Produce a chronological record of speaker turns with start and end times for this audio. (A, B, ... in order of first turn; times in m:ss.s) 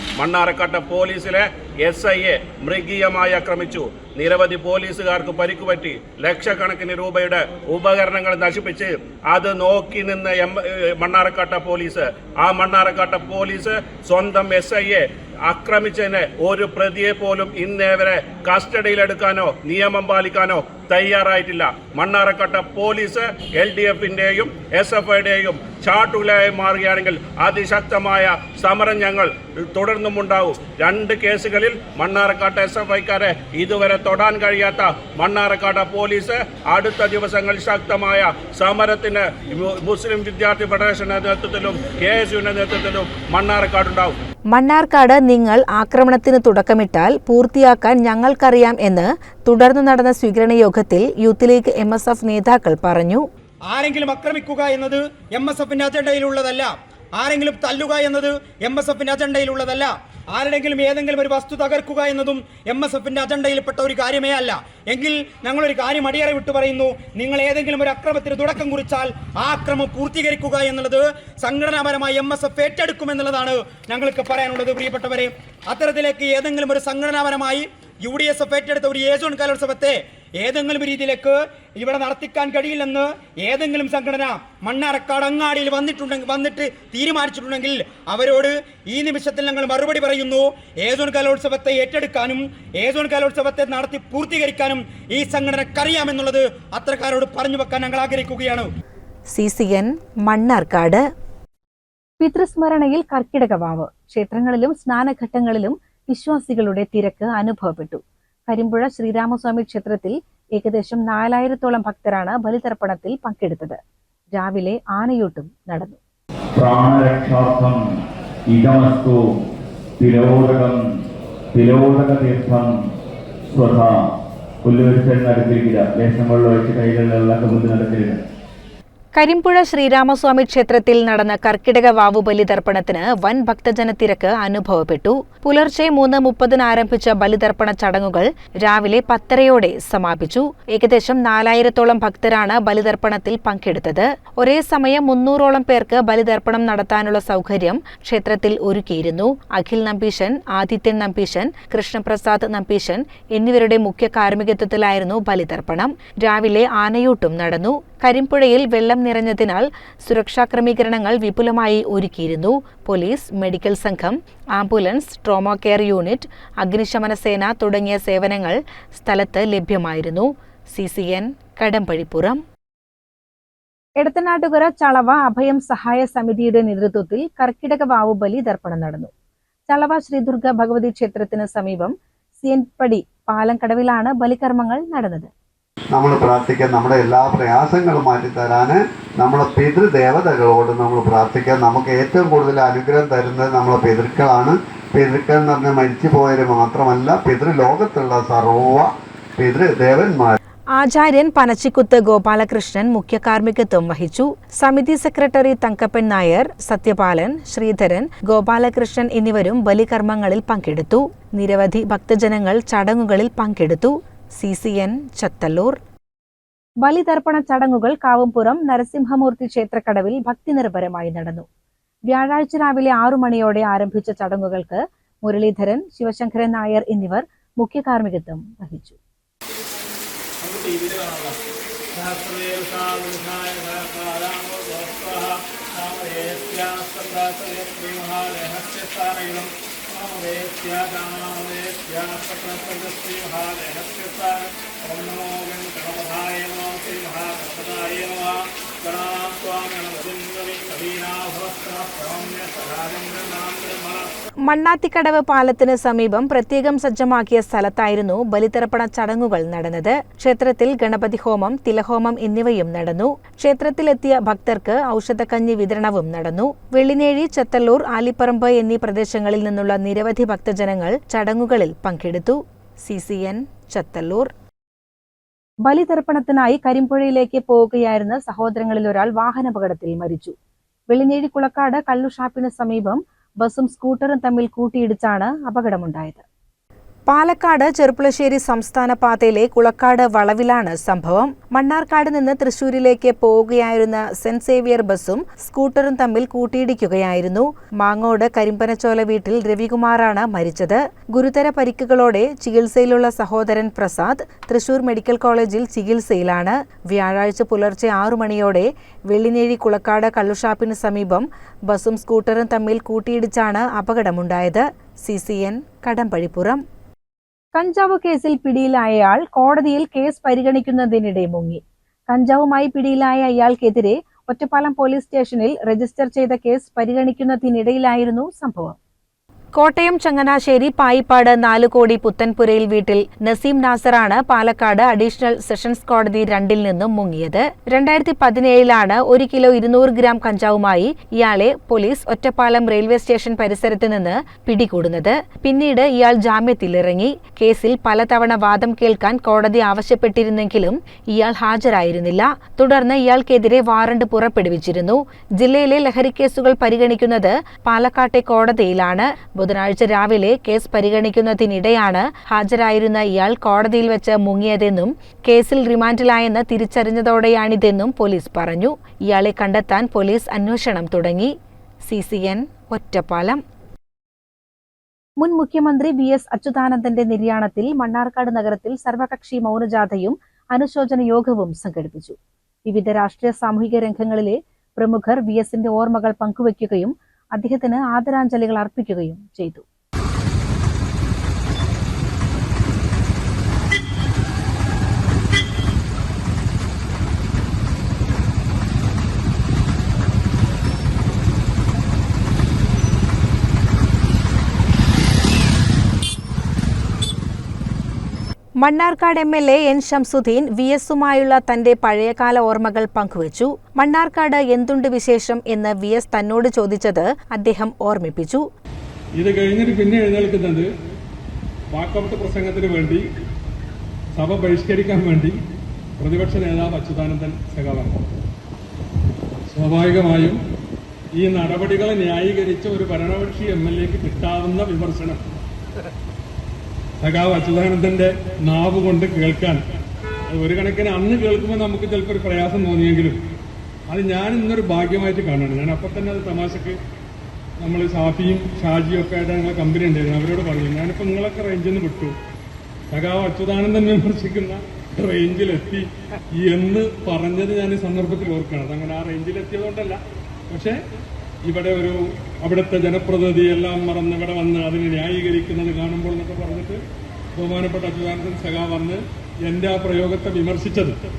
0:00.2-0:44.2 A
0:44.5-0:53.2 B
0:53.7-1:38.7 C
1:39.3-1:41.1 B
1:42.2-1:53.8 D
1:54.3-1:56.0 D
1:56.5-1:58.0 E
1:58.5-1:59.4 E
2:00.0-2:00.8 E
2:01.5-2:02.8 E
2:03.5-2:04.1 E
2:04.6-2:08.2 E
2:09.2-2:52.4 B
2:54.0-2:59.1 D
2:59.7-3:05.3 D
3:05.9-3:20.4 F
3:20.8-3:35.8 B
3:36.8-3:41.5 D
3:42.1-3:49.0 D
4:14.4-4:34.3 B
4:35.6-4:40.4 D
4:40.9-4:46.2 D
4:47.1-5:16.6 B
5:17.6-5:28.8 D
5:29.6-6:11.3 B
6:11.9-6:13.4 B
6:15.2-6:29.6 D
6:48.6-6:58.4 B
6:59.2-7:00.7 G
7:01.7-7:03.0 G
7:04.2-7:05.4 G
7:06.0-7:08.0 G
7:09.5-7:10.4 G
7:11.2-7:15.2 G
7:17.0-7:19.6 G
7:20.3-7:23.2 G
7:23.9-7:26.8 G
7:27.6-7:32.2 G
7:32.9-7:35.8 G
7:36.4-7:40.8 G
7:41.5-7:46.8 G
7:47.4-7:51.0 G